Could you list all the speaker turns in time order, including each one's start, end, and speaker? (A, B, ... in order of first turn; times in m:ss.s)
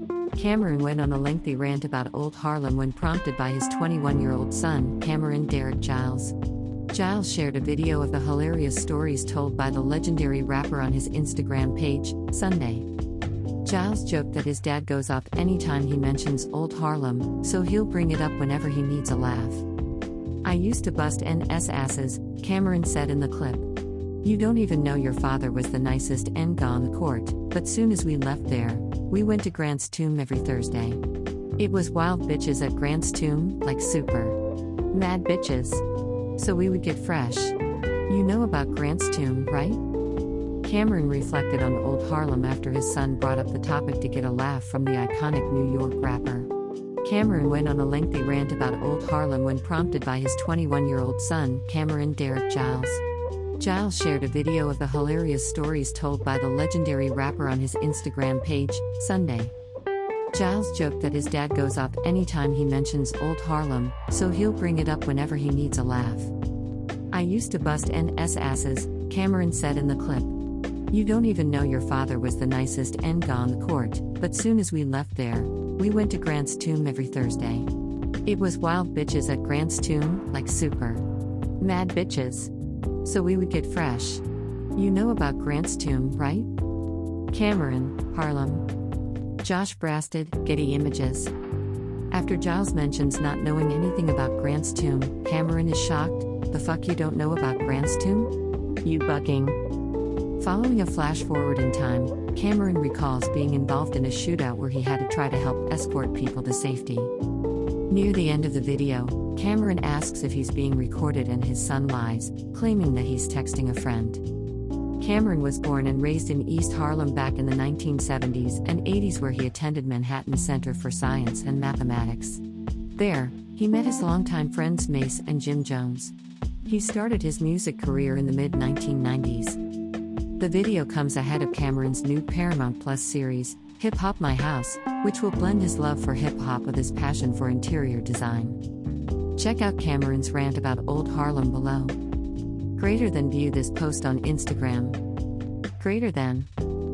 0:00.3-0:06.4 A
0:06.9-0:12.9 A
0:13.6-0:19.6 A
0:20.4-0:23.7 A
0:24.2-0:31.0 A
0:31.6-0:34.4 A
0:34.9-0:35.8 A
0:36.4-0:37.5 A
0:38.1-0:39.8 A
0:40.6-0:46.5 A
0:47.0-0:53.0 A
0:53.6-0:59.5 A
1:00.3-1:06.3 A
1:07.1-1:10.4 A
1:10.9-1:17.7 A
1:18.2-1:21.1 A
1:21.6-1:22.5 A
1:23.0-1:24.2 A
1:24.7-1:26.5 A
1:27.3-1:28.6 A
1:29.4-1:31.3 A
1:32.1-1:38.3 A
1:38.8-1:39.6 A
1:40.4-1:47.1 A
1:47.9-1:54.2 A
1:55.0-2:02.4 A
2:03.0-2:06.1 A
2:06.6-2:09.6 A
2:10.4-2:18.6 A
2:19.4-2:22.0 A
2:22.8-2:25.0 A
2:25.8-2:26.5 A